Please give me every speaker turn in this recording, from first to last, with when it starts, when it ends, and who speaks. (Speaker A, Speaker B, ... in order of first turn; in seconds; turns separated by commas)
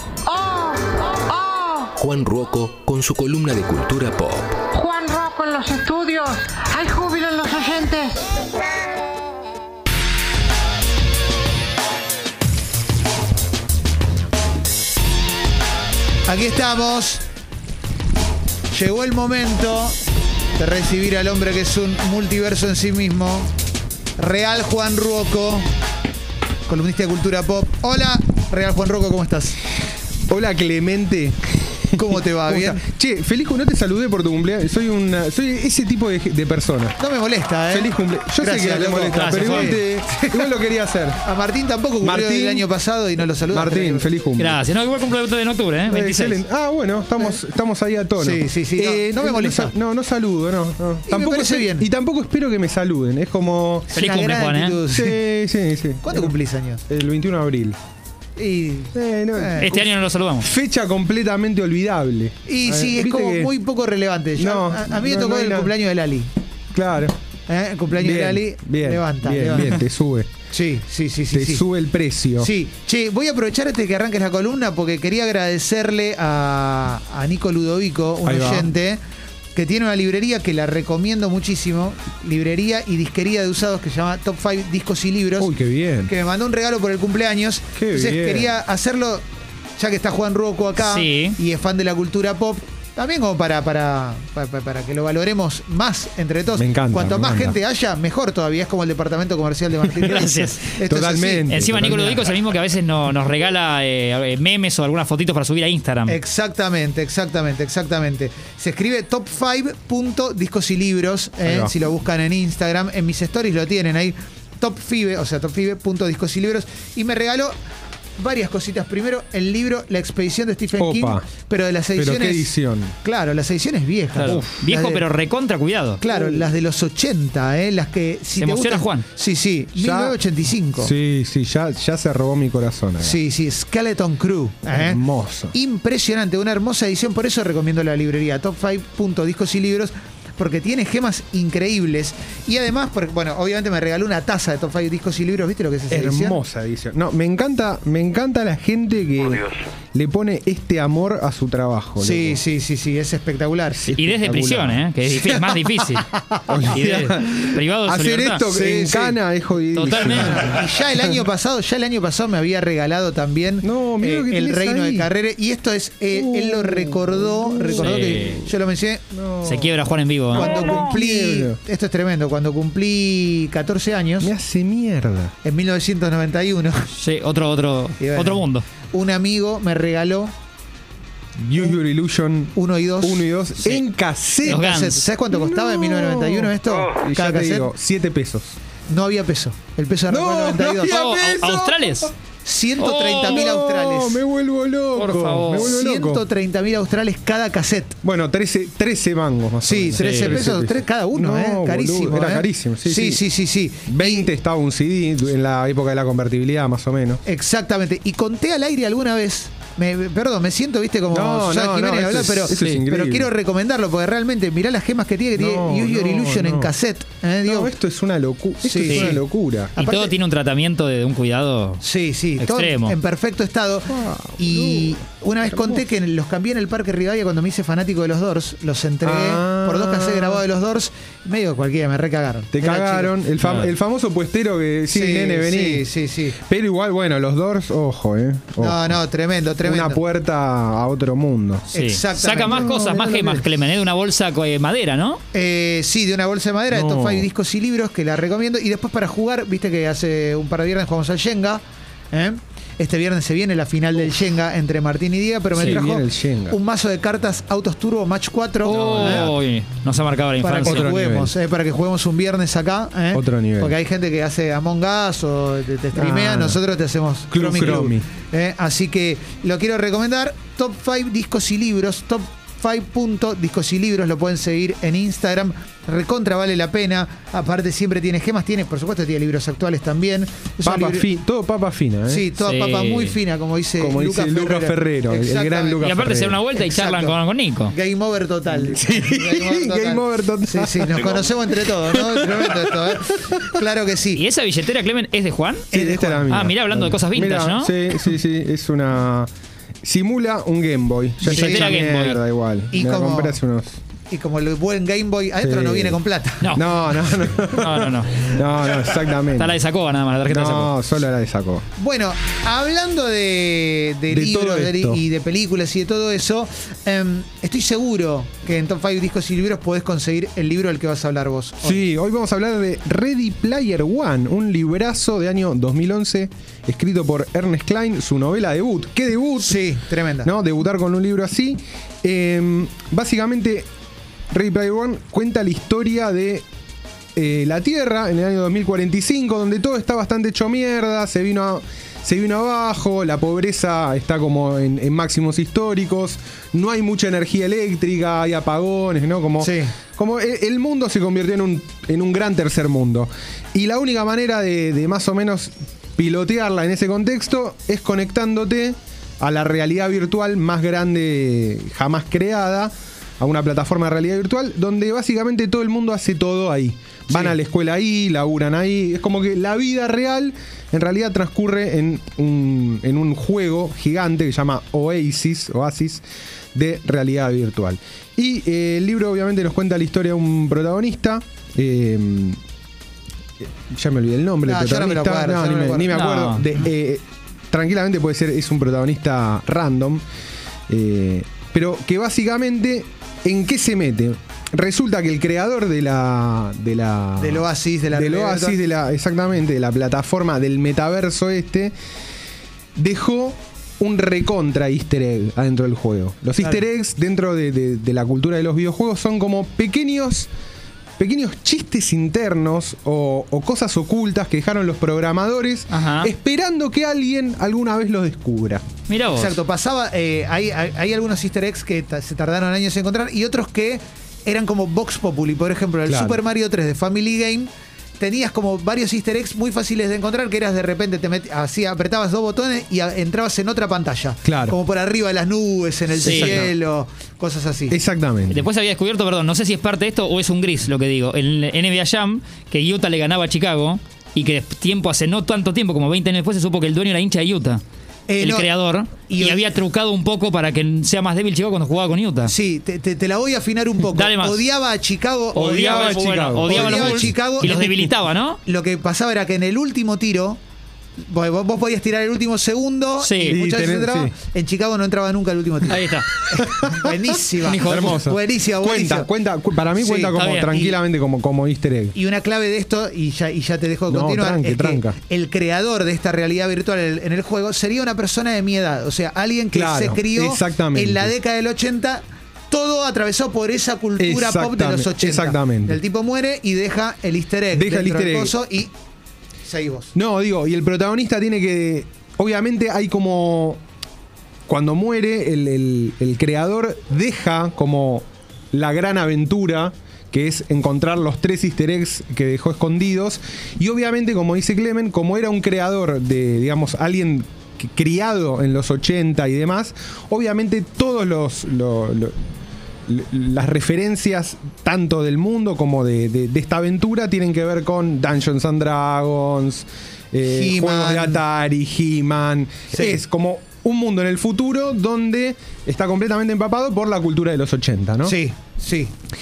Speaker A: 0.3-0.8, Speaker A: 1.3-1.9, Speaker B: 1.9-4.6, Speaker A: 4.8-8.1, Speaker C: 16.3-17.2, Speaker C: 18.7-20.0, Speaker C: 20.6-23.5, Speaker C: 24.2-25.7, Speaker C: 26.7-29.6, Speaker D: 30.3-37.0, Speaker C: 31.9-32.8, Speaker C: 37.0-40.5, Speaker D: 37.7-41.2, Speaker E: 39.1-39.8, Speaker C: 41.2-44.1, Speaker D: 42.0-42.7, Speaker D: 43.5-44.6, Speaker E: 44.4-46.4, Speaker D: 45.9-54.0, Speaker C: 48.2-49.7, Speaker C: 51.1-51.9, Speaker C: 53.9-55.2, Speaker E: 53.9-54.8, Speaker D: 54.9-56.4, Speaker C: 56.0-56.8, Speaker D: 56.9-57.8, Speaker C: 58.4-59.7, Speaker D: 58.9-63.5, Speaker E: 59.6-60.5, Speaker C: 62.5-66.3, Speaker D: 64.4-65.7, Speaker D: 66.7-67.2, Speaker C: 67.5-69.8, Speaker D: 67.9-70.3, Speaker C: 70.5-71.7, Speaker D: 71.3-72.5, Speaker C: 72.4-79.0, Speaker D: 78.2-78.7, Speaker C: 79.5-85.5, Speaker D: 85.4-86.1, Speaker C: 86.1-89.2, Speaker D: 87.8-88.5, Speaker C: 89.8-102.0, Speaker E: 90.8-91.4, Speaker D: 96.6-97.6, Speaker E: 100.0-100.6, Speaker D: 100.9-102.3, Speaker E: 101.5-106.2, Speaker C: 106.1-117.6, Speaker D: 111.4-111.8, Speaker C: 118.2-125.1, Speaker D: 120.8-121.3, Speaker D: 122.0-123.0, Speaker E: 124.2-126.0, Speaker D: 124.2-124.6, Speaker C: 126.0-130.9, Speaker D: 126.1-126.5, Speaker E: 128.4-129.1, Speaker D: 129.8-130.2, Speaker D: 130.8-133.2, Speaker C: 133.0-146.4, Speaker D: 134.7-135.5, Speaker D: 145.9-152.4, Speaker C: 152.0-153.9, Speaker D: 153.8-154.8, Speaker E: 153.9-156.1, Speaker C: 155.2-156.8, Speaker D: 156.5-161.2, Speaker E: 156.7-158.4, Speaker C: 158.5-159.2, Speaker E: 159.7-160.5, Speaker C: 159.9-169.7, Speaker D: 163.6-165.1, Speaker D: 166.1-168.5, Speaker E: 167.7-168.4, Speaker D: 169.1-169.7, Speaker E: 169.4-170.6, Speaker C: 170.3-174.3, Speaker D: 170.3-171.6, Speaker D: 174.2-175.3, Speaker C: 175.4-176.9, Speaker E: 176.9-178.6, Speaker C: 178.0-180.3, Speaker D: 181.4-184.6, Speaker C: 182.5-183.3, Speaker C: 184.4-187.7, Speaker E: 184.4-185.0, Speaker D: 185.3-188.6, Speaker C: 188.9-191.0, Speaker D: 190.1-192.1, Speaker E: 190.8-192.1, Speaker C: 192.4-194.2, Speaker E: 192.8-193.5, Speaker D: 193.0-196.2, Speaker E: 194.9-195.8, Speaker C: 195.5-197.9, Speaker D: 198.0-203.2, Speaker C: 199.6-204.3, Speaker E: 200.0-200.4, Speaker D: 203.8-207.2, Speaker C: 207.2-217.7, Speaker D: 211.1-213.3, Speaker E: 212.5-212.8, Speaker D: 215.3-216.7, Speaker D: 217.4-219.7, Speaker C: 218.6-219.2, Speaker E: 218.9-219.2, Speaker C: 219.8-220.1, Speaker E: 219.8-221.8, Speaker C: 221.8-233.1, Speaker E: 222.4-222.9, Speaker D: 223.9-225.8, Speaker D: 229.0-230.4, Speaker D: 232.5-235.8, Speaker E: 233.4-233.7, Speaker C: 234.9-236.4, Speaker D: 236.4-239.0, Speaker C: 238.6-240.0, Speaker D: 239.6-241.7, Speaker C: 241.7-242.8, Speaker E: 241.7-245.2, Speaker D: 242.4-243.5, Speaker C: 245.3-259.3, Speaker D: 246.7-247.3, Speaker D: 255.5-256.6, Speaker E: 258.6-261.0, Speaker D: 258.7-259.4, Speaker C: 260.4-281.1, Speaker D: 260.6-261.3, Speaker D: 263.1-263.8, Speaker D: 265.9-266.6, Speaker D: 267.3-268.1, Speaker D: 280.6-282.3, Speaker C: 282.1-285.8, Speaker E: 282.4-283.1, Speaker D: 283.8-286.4, Speaker E: 285.8-287.7, Speaker C: 286.6-287.2, Speaker C: 287.7-294.2, Speaker D: 288.5-293.6, Speaker E: 294.1-295.7, Speaker C: 295.7-296.3, Speaker D: 295.7-299.3, Speaker E: 296.3-297.7, Speaker D: 299.8-303.8, Speaker E: 301.2-302.2, Speaker C: 301.3-301.8, Speaker C: 302.7-303.4, Speaker C: 304.1-306.5, Speaker D: 305.4-306.0, Speaker D: 306.5-309.6, Speaker E: 307.5-308.3, Speaker E: 309.3-310.7, Speaker D: 310.3-311.6, Speaker C: 311.8-321.8, Speaker D: 314.1-315.0, Speaker D: 321.6-329.7, Speaker C: 329.4-330.3, Speaker D: 330.2-333.7, Speaker D: 334.3-336.4, Speaker D: 337.1-376.0, Speaker C: 349.4-349.7, Speaker D: 376.6-382.4, Speaker D: 383.4-390.0, Speaker C: 384.4-386.0, Speaker E: 385.9-386.5, Speaker D: 390.7-401.7, Speaker C: 397.2-398.6, Speaker D: 402.8-410.3, Speaker C: 406.4-406.6, Speaker D: 411.0-418.6, Speaker E: 415.7-416.1, Speaker E: 418.9-419.4, Speaker C: 419.1-437.8, Speaker D: 425.9-426.2, Speaker D: 434.2-434.6, Speaker D: 435.9-436.5, Speaker E: 436.0-436.4, Speaker D: 437.7-438.5, Speaker E: 438.3-447.6, Speaker C: 448.1-448.5, Speaker E: 448.2-452.3, Speaker C: 449.0-449.6, Speaker C: 452.2-457.6, Speaker E: 453.9-454.4, Speaker D: 455.3-457.9, Speaker E: 455.3-458.4, Speaker C: 458.4-460.4, Speaker C: 461.0-469.1, Speaker E: 463.0-463.4, Speaker D: 463.3-464.1, Speaker E: 465.7-466.1, Speaker D: 466.3-471.9, Speaker E: 467.4-468.0, Speaker C: 469.8-470.8, Speaker E: 470.1-470.6, Speaker C: 471.9-488.7, Speaker D: 473.9-475.0, Speaker D: 479.5-481.1, Speaker D: 484.0-485.8, Speaker D: 487.5-488.3, Speaker C: 489.4-489.9, Speaker D: 489.9-493.6, Speaker D: 494.5-512.1, Speaker D: 512.9-528.2, Speaker C: 520.2-521.2, Speaker C: 522.7-523.0, Speaker C: 528.0-528.9